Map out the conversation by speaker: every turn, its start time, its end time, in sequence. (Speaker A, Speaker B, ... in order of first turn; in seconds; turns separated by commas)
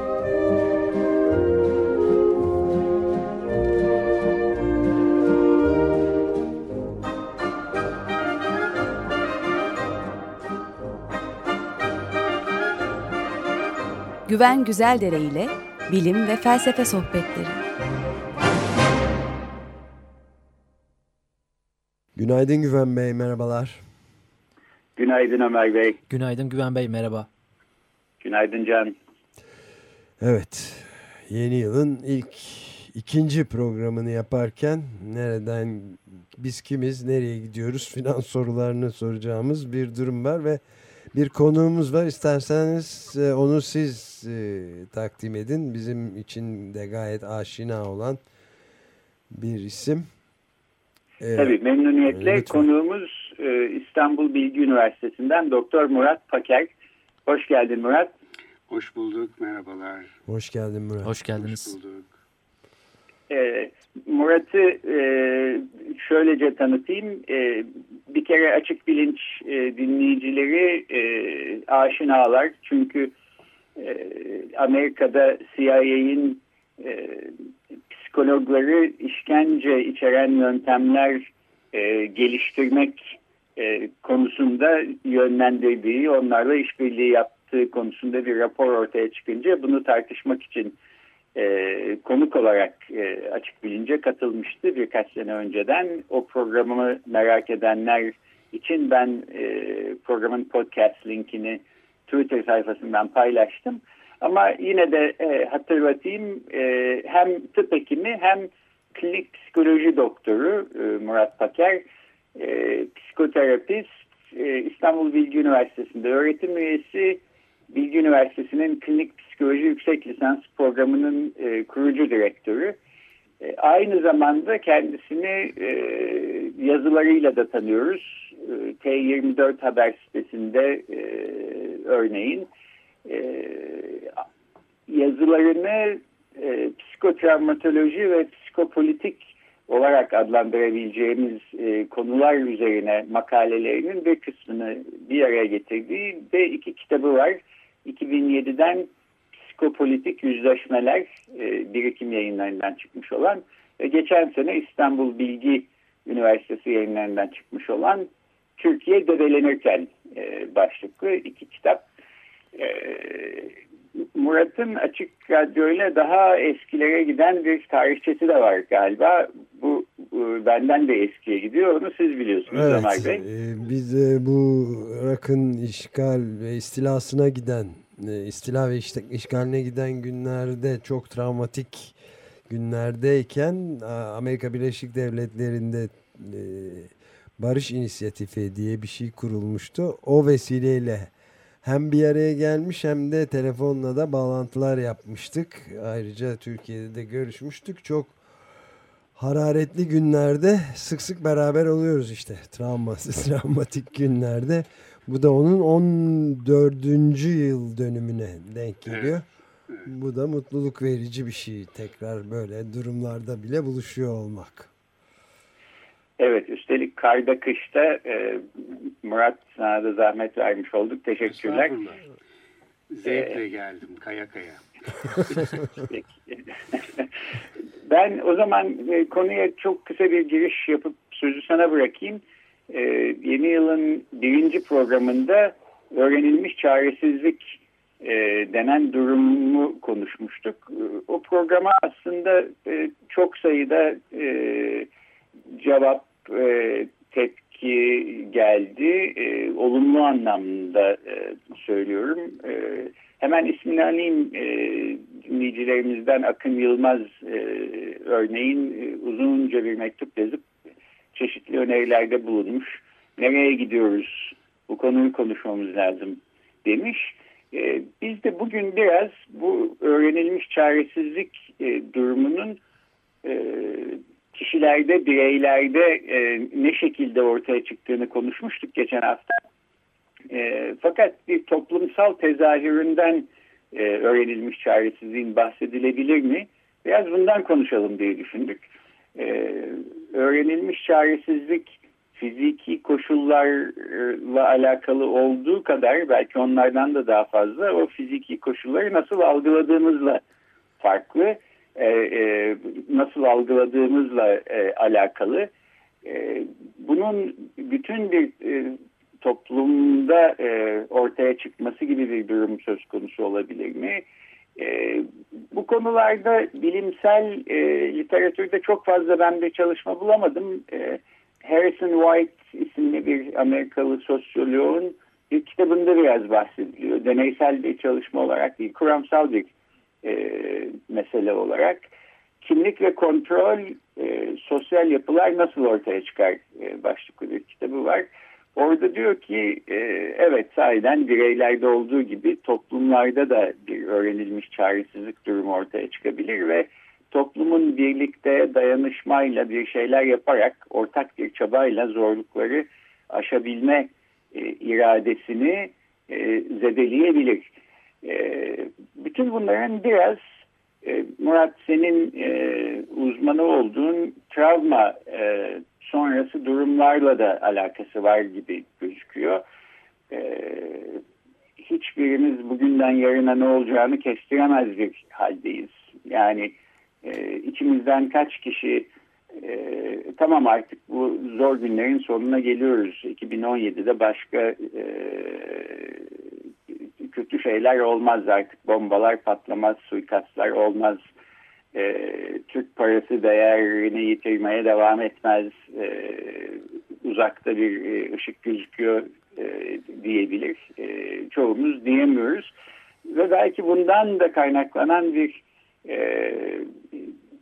Speaker A: 14.3-17.6, Speaker B: 22.1-23.8, Speaker C: 24.9-26.0, Speaker D: 26.1-27.3, Speaker C: 28.2-28.9, Speaker B: 30.2-40.6, Speaker B: 41.1-48.2, Speaker B: 49.3-50.0, Speaker B: 51.2-51.6, Speaker C: 51.3-56.7, Speaker B: 52.1-52.6, Speaker C: 57.2-58.1, Speaker E: 58.7-60.1, Speaker B: 60.3-61.1, Speaker D: 61.0-61.8, Speaker E: 61.2-62.1, Speaker C: 63.3-73.1, Speaker C: 73.8-77.3, Speaker C: 78.0-83.0, Speaker C: 83.6-90.7, Speaker C: 91.3-111.8, Speaker C: 112.3-117.2, Speaker C: 117.7-122.8, Speaker C: 123.4-132.5, Speaker C: 133.0-134.1, Speaker C: 134.9-148.9, Speaker C: 149.4-161.8, Speaker C: 162.5-163.5, Speaker C: 164.1-173.2, Speaker B: 172.5-181.9, Speaker B: 182.5-191.1, Speaker B: 191.6-198.2, Speaker B: 199.2-209.2, Speaker B: 209.8-214.7, Speaker C: 216.2-221.8, Speaker E: 221.5-221.9, Speaker E: 223.0-224.6, Speaker C: 223.1-223.3, Speaker C: 226.7-227.1, Speaker C: 227.8-237.4, Speaker C: 238.0-244.9, Speaker C: 245.6-260.4, Speaker C: 261.1-272.6, Speaker C: 273.2-279.4, Speaker C: 280.3-288.6, Speaker C: 289.1-300.2, Speaker C: 300.8-305.5, Speaker C: 306.0-314.0, Speaker C: 314.6-329.5, Speaker C: 330.0-331.8, Speaker C: 332.4-357.5, Speaker C: 358.0-360.2, Speaker C: 360.8-369.4, Speaker C: 370.1-371.0, Speaker C: 371.6-386.0, Speaker C: 387.0-391.0, Speaker C: 391.7-402.5, Speaker C: 403.1-407.1